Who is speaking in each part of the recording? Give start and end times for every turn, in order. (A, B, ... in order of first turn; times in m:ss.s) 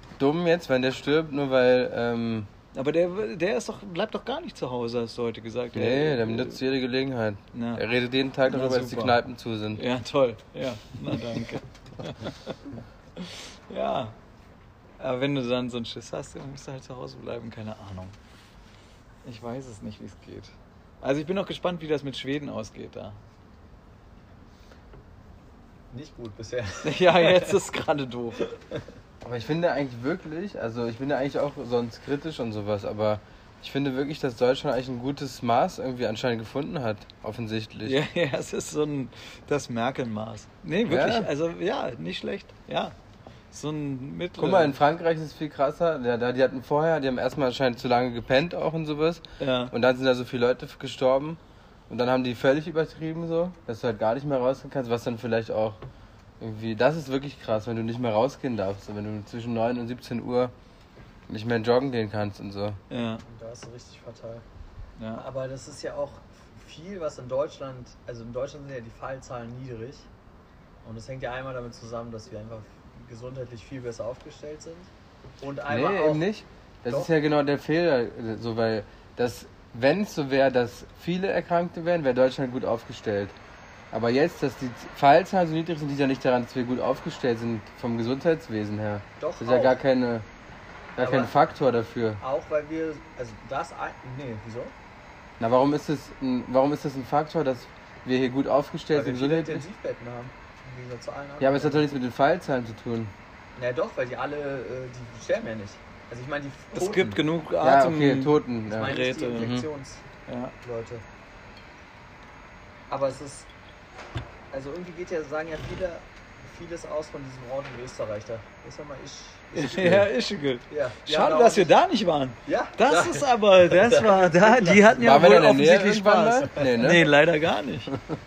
0:00.2-0:02.5 A
0:02.7-0:06.6 B
0:05.7-0:09.8 A
0:07.5-0:07.8 B
0:08.4-0:09.2 B
0:09.7-0:14.1 B
0:15.0-0:18.1 B
0:19.2-0:23.2 B
0:25.9-0:27.6 C
0:26.8-0:28.5 B
0:29.2-0:38.0 A
0:37.8-0:42.9 B
0:40.8-0:41.3 A
0:43.5-0:44.8 B
0:44.4-0:55.8 A
0:49.4-0:49.7 B
0:56.4-1:00.5 A
1:01.3-1:02.8 A
1:02.9-1:03.2 B
1:03.2-1:04.4 C
1:05.0-1:05.2 B
1:05.1-1:10.1 C
1:10.8-1:14.9 C
1:15.4-1:16.2 C
1:15.7-1:23.3 A
1:16.9-1:17.1 C
1:23.9-1:30.2 A
1:29.2-1:29.8 C
1:31.0-1:32.2 A
1:31.0-1:31.3 C
1:32.2-1:34.7 C
1:35.4-1:39.6 A
1:38.9-1:41.9 C
1:41.4-1:43.1 A
1:43.6-1:47.2 C
1:46.7-1:49.6 B
1:47.6-1:49.7 A
1:48.7-1:50.0 C
1:50.3-1:50.5 B
1:50.6-1:51.0 C
1:52.9-1:53.5 C
1:54.5-2:00.0 C
1:59.5-2:07.9 B
2:00.7-2:01.8 C
2:02.4-2:05.2 C
2:05.0-2:07.1 A
2:06.4-2:06.7 C